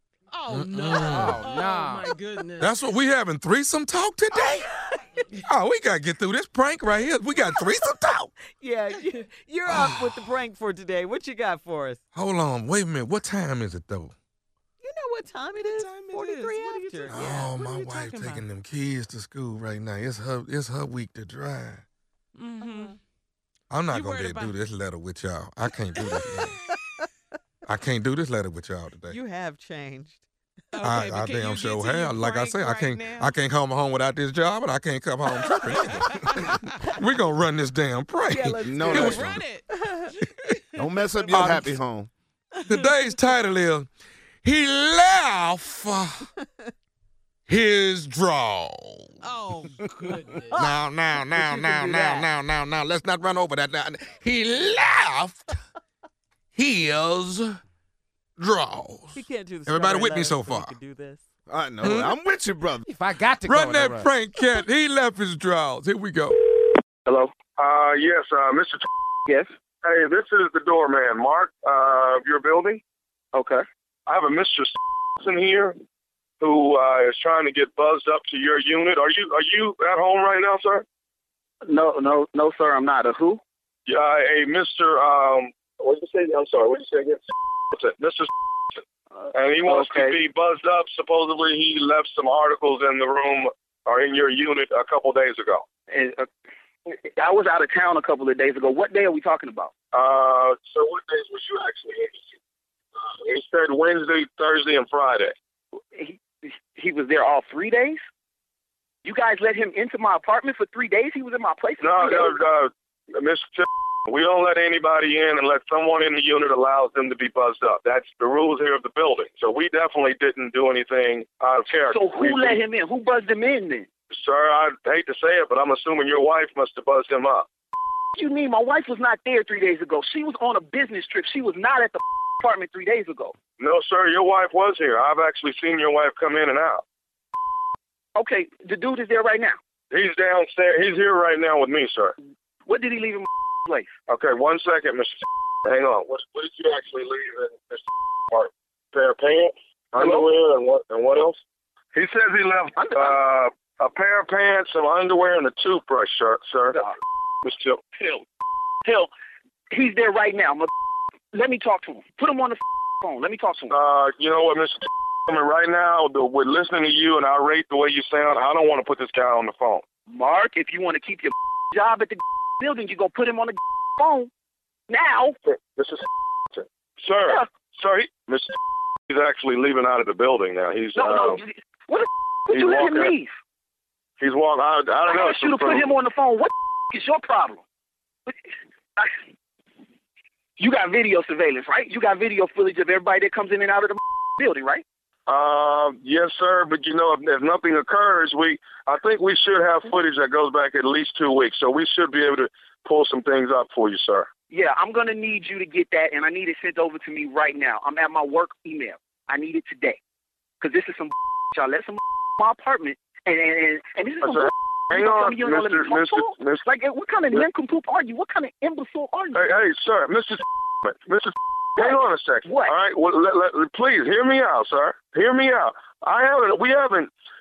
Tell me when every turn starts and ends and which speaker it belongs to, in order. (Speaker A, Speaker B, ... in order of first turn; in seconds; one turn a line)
Speaker A: 0.3-2.7
Speaker B: 0.5-1.4
Speaker C: 1.0-2.1
Speaker B: 2.6-4.7
Speaker D: 4.4-4.9
Speaker B: 5.4-8.3
Speaker D: 8.5-12.0
Speaker B: 9.7-10.1
Speaker B: 12.1-14.2
Speaker D: 14.8-17.5
Speaker A: 15.7-18.4
Speaker B: 17.1-21.8
Speaker A: 22.4-22.9
Speaker D: 22.6-22.9
Speaker B: 23.7-26.6
Speaker A: 23.9-24.6
Speaker B: 27.6-29.2
Speaker D: 29.1-30.2
Speaker A: 30.7-33.3
Speaker B: 30.8-39.3
Speaker A: 35.7-36.6
Speaker D: 38.3-40.1
Speaker E: 38.6-39.4
Speaker A: 38.9-40.3
Speaker E: 40.8-42.1
Speaker D: 41.2-41.5
Speaker B: 41.3-41.7
Speaker B: 42.7-43.9
Speaker A: 42.7-43.0
Speaker B: 44.4-46.3
Speaker B: 47.5-49.2
Speaker A: 49.2-50.5
Speaker D: 50.5-52.3
Speaker B: 50.5-55.5
Speaker B: 56.5-57.6
Speaker B: 58.4-60.7
Speaker D: 59.1-61.2
Speaker E: 61.5-62.9
Speaker B: 61.8-62.1
Speaker C: 62.8-64.1
Speaker B: 63.4-66.5
Speaker F: 67.1-67.4
Speaker G: 67.5-68.9
Speaker G: 69.8-72.8
Speaker F: 73.3-73.6
Speaker G: 74.1-75.8
Speaker G: 76.4-80.8
Speaker F: 81.7-83.4
Speaker G: 83.9-88.8
Speaker G: 89.3-95.6
Speaker F: 89.4-90.2
Speaker F: 95.9-96.3
Speaker F: 97.0-99.7
Speaker G: 99.9-102.2
Speaker G: 103.2-105.3
Speaker F: 105.9-106.2
Speaker F: 106.7-108.0
Speaker F: 109.0-112.4
Speaker G: 111.8-122.6
Speaker F: 121.8-123.9
Speaker G: 124.1-127.5
Speaker F: 128.1-133.3
Speaker G: 133.6-136.8
Speaker F: 138.1-139.6
Speaker G: 139.9-142.1
Speaker F: 142.7-143.9
Speaker G: 144.1-151.4
Speaker F: 150.0-150.3
Speaker G: 151.9-156.8
Speaker F: 152.8-153.2
Speaker G: 157.4-158.2
Speaker F: 158.8-159.1
Speaker F: 159.7-160.7
Speaker F: 161.3-163.7
Speaker G: 163.7-169.8
Speaker F: 170.1-174.3
Speaker F: 174.9-175.4
Speaker G: 175.5-178.6
Speaker G: 179.1-181.4
Speaker F: 180.9-183.3
Speaker G: 182.5-183.1
Speaker G: 184.2-185.9
Speaker F: 185.1-187.6
Speaker F: 190.6-194.8
Speaker G: 195.3-204.3
Speaker F: 204.5-210.0
Speaker F: 210.6-219.4
Speaker G: 214.2-216.6
Speaker G: 219.3-227.1
Speaker F: 221.8-222.7